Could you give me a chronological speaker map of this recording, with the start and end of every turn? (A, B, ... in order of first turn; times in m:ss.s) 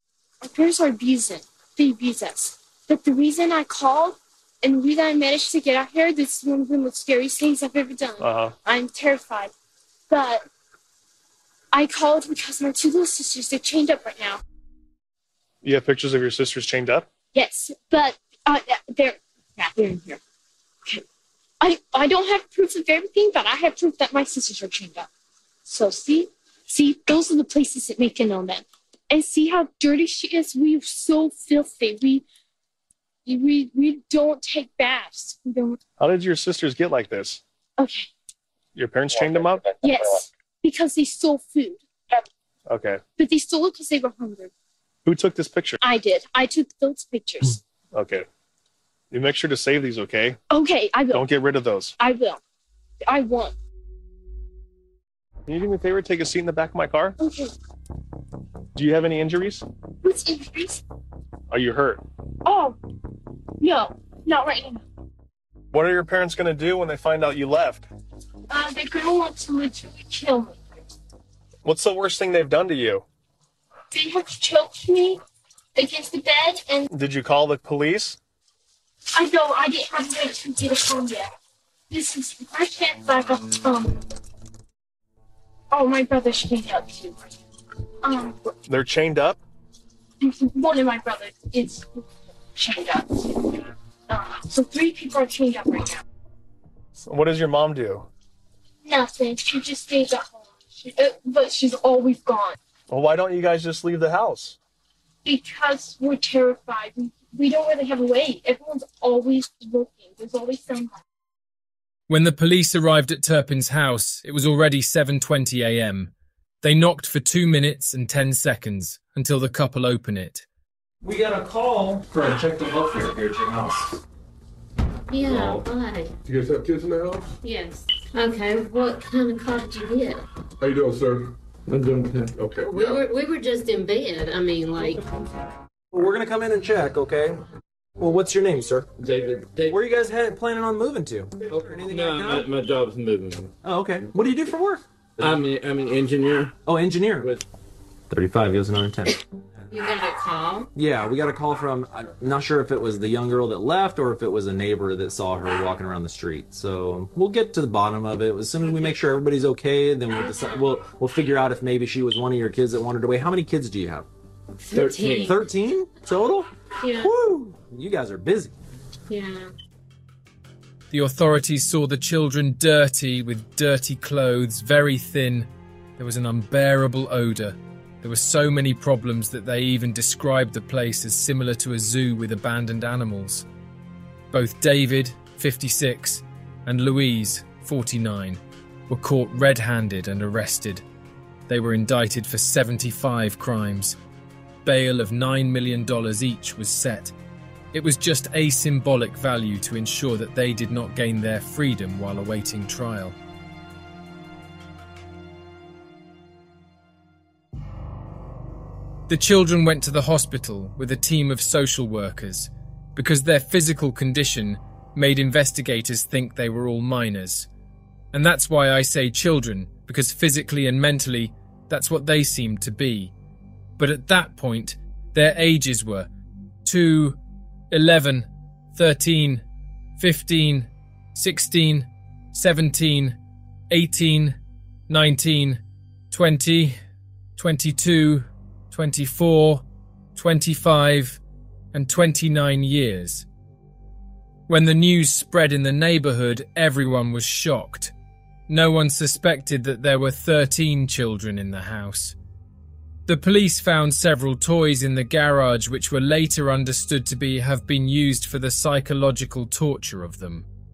0:00.4-0:09.5 A
0:08.2-0:08.5 B
0:10.1-0:10.4 A
0:11.7-0:14.4 A
0:15.6-0:17.1 B
0:17.3-0:20.2 A
0:21.6-0:25.1 A
0:25.6-0:32.2 A
0:33.2-0:35.8 A
0:36.0-0:37.4 B
0:37.8-0:38.1 A
0:38.7-0:39.7 B
0:39.8-0:41.8 A
0:42.7-0:43.0 B
0:43.2-0:44.5 A
0:45.0-0:45.8 B
0:45.8-0:47.6 A
0:47.9-0:48.3 B
0:49.1-0:50.4 B
0:50.5-0:51.2 A
0:51.1-0:51.9 B
0:52.0-0:52.4 A
0:53.1-0:53.5 A
0:55.5-0:57.2 B
0:57.2-0:57.5 A
0:58.8-0:59.6 B
1:00.0-1:00.8 A
1:01.5-1:02.0 B
1:02.4-1:02.8 A
1:03.6-1:04.8 A
1:05.7-1:07.9 B
1:08.5-1:10.6 A
1:11.6-1:13.0 B
1:13.9-1:15.2 A
1:15.7-1:16.9 A
1:16.9-1:18.2 B
1:19.1-1:21.3 A
1:21.9-1:24.0 A
1:25.7-1:27.2 A
1:28.0-1:28.5 A
1:28.7-1:29.4 B
1:30.2-1:32.0 A
1:32.5-1:33.5 A
1:34.1-1:36.0 A
1:37.0-1:38.1 B
1:38.8-1:42.6 A
1:42.9-1:44.6 B
1:45.2-1:51.0 A
1:52.1-2:00.4 C
2:01.0-2:04.0 D
2:05.1-2:06.1 E
2:05.2-2:05.6 D
2:06.2-2:07.3 F
2:07.4-2:10.2 E
2:10.6-2:12.8 F
2:12.6-2:15.0 E
2:15.9-2:17.4 D
2:18.0-2:18.9 D
2:19.0-2:19.8 G
2:19.6-2:22.5 D
2:21.8-2:23.5 G
2:23.6-2:25.4 D
2:25.2-2:26.6 G
2:26.6-2:27.3 D
2:28.1-2:29.2 D
2:29.7-2:30.7 E
2:30.7-2:44.0 D
2:40.2-2:40.6 E
2:44.6-2:45.4 E
2:44.8-2:45.2 G
2:45.1-2:48.5 D
2:46.8-2:47.1 E
2:49.1-2:49.5 E
2:50.9-3:03.4 C
3:04.3-3:10.8 C
3:11.5-3:14.0 C
3:14.6-3:17.1 C
3:17.7-3:23.2 C
3:29.1-3:37.5 C
3:38.1-3:43.1 C
3:43.8-3:46.1 C
3:46.6-3:47.2 C
3:47.7-3:49.4 C
3:50.0-3:53.2 C
3:53.7-3:56.8 C
3:57.4-4:01.2 C
4:01.7-4:03.2 C
4:04.5-4:07.9 C
4:08.5-4:12.2 C
4:13.1-4:20.5 C